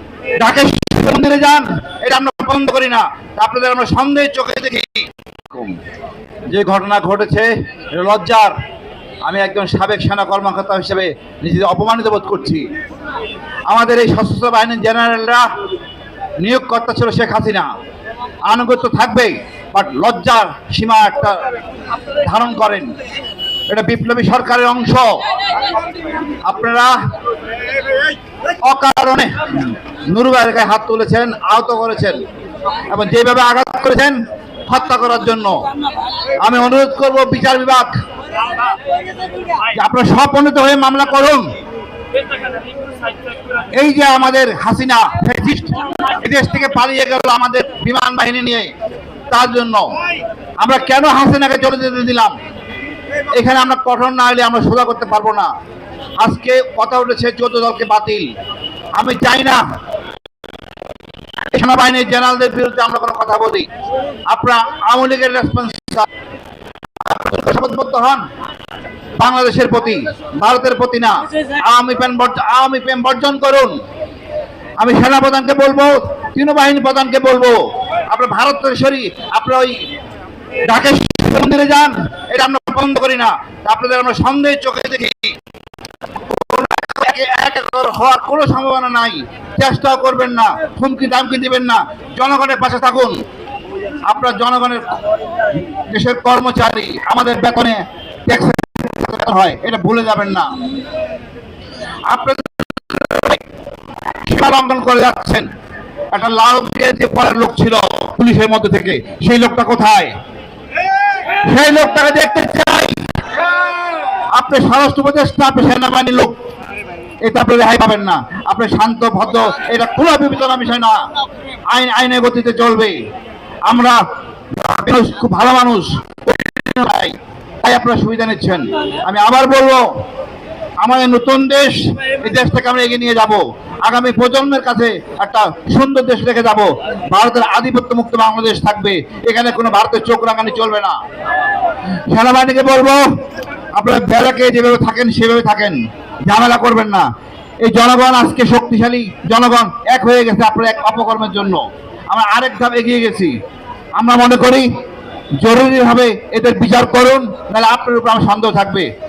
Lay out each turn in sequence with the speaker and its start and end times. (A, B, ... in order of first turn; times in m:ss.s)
0:00.4-0:05.8 A
0:06.5-0:08.6 A
0:09.2-0:12.7 A
0:13.7-0:15.5 A
0:16.4-0:17.7 A
0:18.4-0:21.4 A
0:22.2-0:22.9 A
0:23.7-0:25.2 A
0:26.4-0:26.9 A
0:28.6-0:32.2 A
0:32.9-0:35.6 A
0:36.4-0:37.9 A
0:39.7-0:41.4 A
0:43.7-0:48.7 A
0:49.3-0:49.9 A
0:50.6-0:52.3 A
0:53.3-0:55.5 A
0:56.2-0:58.3 A
0:58.9-0:59.6 A
1:01.5-1:03.7 A
1:04.3-1:06.1 A
1:07.0-1:08.2 A
1:09.2-1:13.8 A
1:14.8-1:19.8 A
1:20.6-1:25.4 A
1:26.2-1:33.2 A
1:34.0-1:35.0 A
1:35.8-1:40.6 A
1:42.1-1:43.4 A
1:44.2-1:45.5 A
1:46.1-1:50.2 A
1:51.4-1:53.0 A
1:54.3-1:56.3 A
1:57.2-2:01.0 A
2:01.7-2:03.0 A
2:03.6-2:04.0 A
2:04.5-2:09.8 A
2:10.8-2:21.0 A
2:22.1-2:23.0 A
2:23.7-2:27.1 A
2:27.6-2:33.4 A
2:34.0-2:34.7 A
2:35.4-2:38.9 A